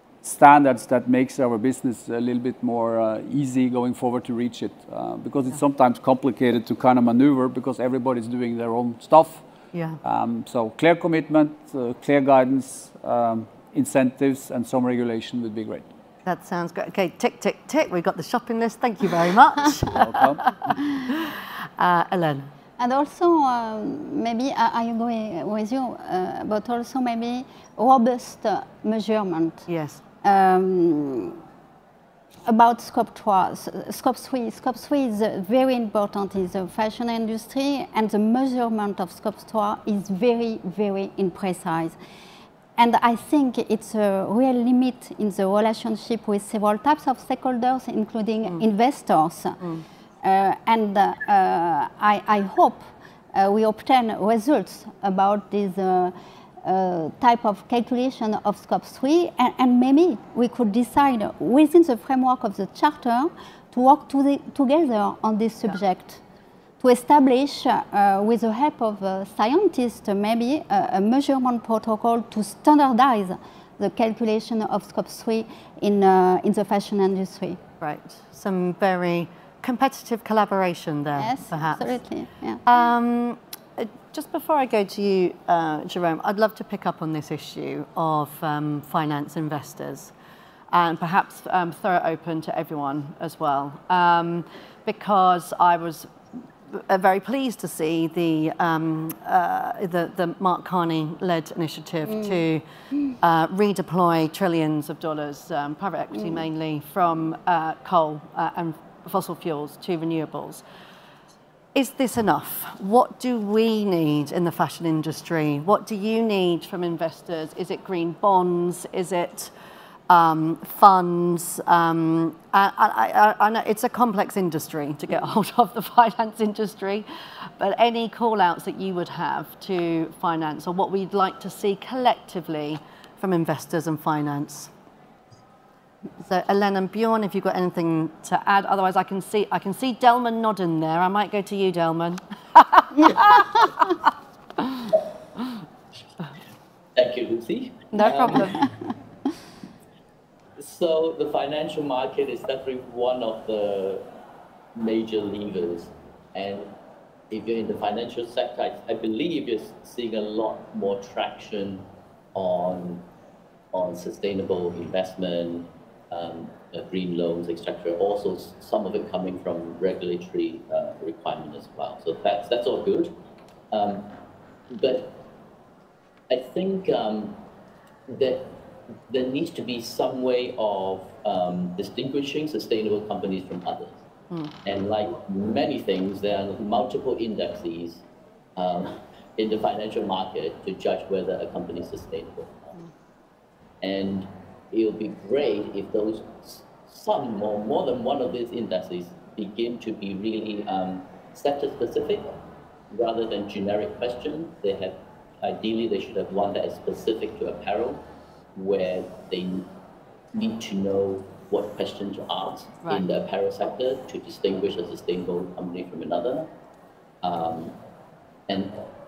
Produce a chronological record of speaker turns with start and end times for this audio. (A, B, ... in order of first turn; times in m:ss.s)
0:00.2-0:09.4 A
0:09.7-0:10.0 B
0:10.0-0:15.9 A
0:16.2-0:20.4 B
0:19.9-0:20.8 A
0:21.1-0:22.5 B
0:22.8-0:29.6 C
0:29.7-0:30.0 B
0:30.2-0:31.4 C
0:32.4-0:42.0 C
0:42.8-0:49.6 C
0:50.2-1:06.2 C
1:06.8-1:17.6 C
1:17.8-1:22.0 B
1:21.2-1:22.6 C
1:22.6-1:30.1 B
1:30.7-1:42.6 B
1:43.2-1:50.6 B
1:51.8-1:59.5 B
2:00.1-2:07.1 B
2:07.6-2:14.7 B
2:16.2-2:23.4 B
2:27.0-2:28.6 D
2:28.0-2:28.7 C
2:28.0-2:28.5 B
2:30.6-2:34.0 D
2:34.8-2:36.7 D
2:37.3-2:43.0 D
2:43.7-2:53.1 D
2:53.7-2:54.1 D
2:54.7-2:55.2 D
2:56.3-2:57.4 D
2:58.1-2:58.6 D
2:59.1-3:04.0 D
3:04.6-3:08.0 D
3:08.6-3:12.8 D
3:13.8-3:22.4 D
3:22.9-3:28.0 D
3:28.6-3:29.7 D
3:30.3-3:36.5 D
3:37.2-3:37.8 D
3:38.5-3:38.9 D